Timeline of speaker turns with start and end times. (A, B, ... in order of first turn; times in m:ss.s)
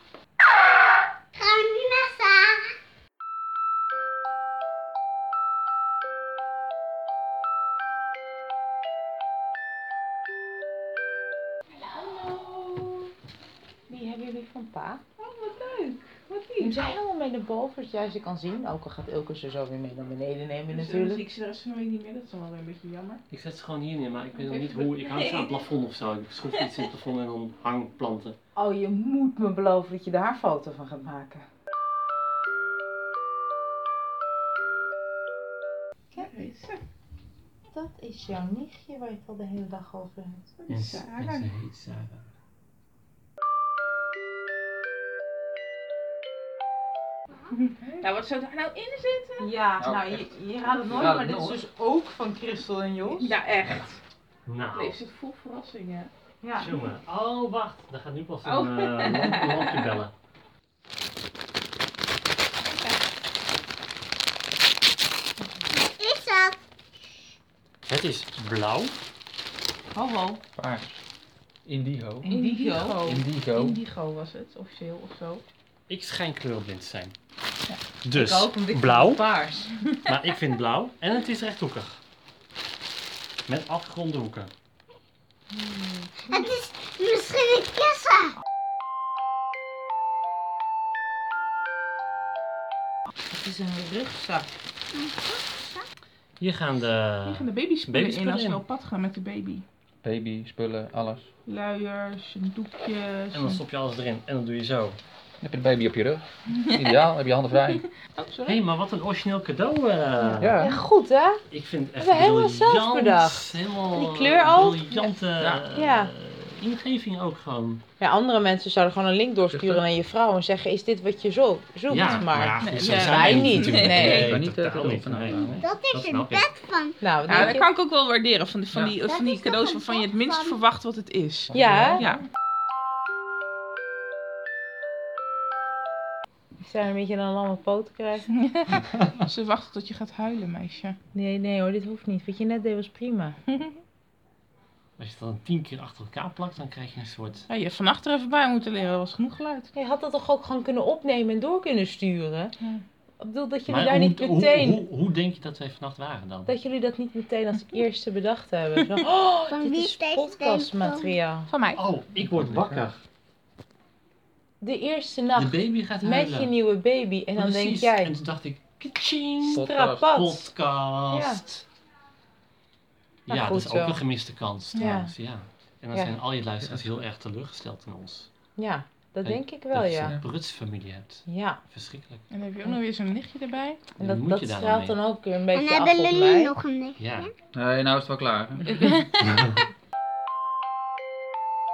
0:01.3-0:02.6 A
0:11.9-0:13.0 B
0:13.9-0:15.0 C
0:15.2-0:16.9 B
0:16.6-0:21.2 C
0:20.7-0:23.2 B
0:23.3-0:28.4 D
0:24.3-0:25.6 B
0:28.5-0:31.4 C
0:36.1-0:36.8 B
0:37.7-0:40.5 C
0:40.6-0:41.5 B
0:40.7-0:42.3 D
0:47.5-0:49.5 B
0:49.4-0:53.4 C
0:49.8-0:51.6 E
0:53.0-0:54.0 B
0:54.4-0:55.0 D
0:54.7-0:56.1 B
0:56.4-0:56.7 C
0:56.6-1:00.1 D
0:58.4-0:59.9 B
1:05.8-1:06.6 A
1:07.9-1:09.0 D
1:09.9-1:10.4 C
1:10.6-1:11.0 E
1:11.6-1:12.3 E
1:12.2-1:15.4 B
1:12.3-1:13.0 C
1:13.0-1:13.8 E
1:15.9-1:17.1 D
1:18.0-1:19.2 D
1:18.1-1:19.9 C
1:20.1-1:22.0 D
1:23.5-1:24.5 D
1:25.6-1:26.1 C
1:26.3-1:28.3 A
1:33.3-1:34.5 C
1:35.0-1:35.8 A
1:36.4-1:38.6 D
1:37.2-1:39.6 B
1:40.0-1:41.3 E
1:41.4-1:43.6 B
1:43.3-1:45.0 D
1:45.4-1:47.8 E
1:46.7-1:47.0 B
1:47.7-1:48.6 B
1:48.4-1:50.6 D
1:50.4-1:50.6 E
1:50.5-1:51.4 C
1:51.5-1:57.8 D
1:52.0-1:55.0 C
1:55.4-1:55.6 E
1:55.8-1:56.1 C
1:58.0-2:04.2 C
1:59.4-1:59.8 E
2:01.9-2:06.6 D
2:02.6-2:04.4 B
2:03.6-2:05.6 E
2:05.6-2:07.0 A
2:07.0-2:07.7 C
2:07.2-2:12.2 B
2:09.1-2:10.5 A
2:11.5-2:12.1 C
2:11.5-2:12.0 D
2:16.6-2:18.3 C
2:18.3-2:21.0 B
2:21.1-2:23.4 C
2:25.0-2:27.4 D
2:27.5-2:29.7 B
2:29.7-2:32.5 C
2:33.2-2:34.8 C
2:33.7-2:36.5 D
2:36.4-2:41.5 C
2:39.5-2:41.2 A
2:41.5-2:41.8 B
2:41.7-2:43.0 D
2:42.2-2:42.9 E
2:44.6-2:48.2 C
2:45.3-2:46.5 D
2:47.4-2:51.6 D
2:49.4-2:50.1 E
2:49.5-2:50.5 C
2:51.1-2:51.4 C
2:53.3-2:58.3 D
2:53.3-2:54.0 C
2:54.8-2:55.2 C
2:55.9-2:56.2 C
2:58.6-3:00.2 C
2:59.2-3:02.2 D
3:01.3-3:01.6 C
3:02.3-3:03.8 B
3:04.0-3:05.0 D
3:04.0-3:06.5 C
3:05.5-3:07.3 A
3:07.0-3:07.3 D
3:07.5-3:08.9 E
3:09.2-3:09.6 D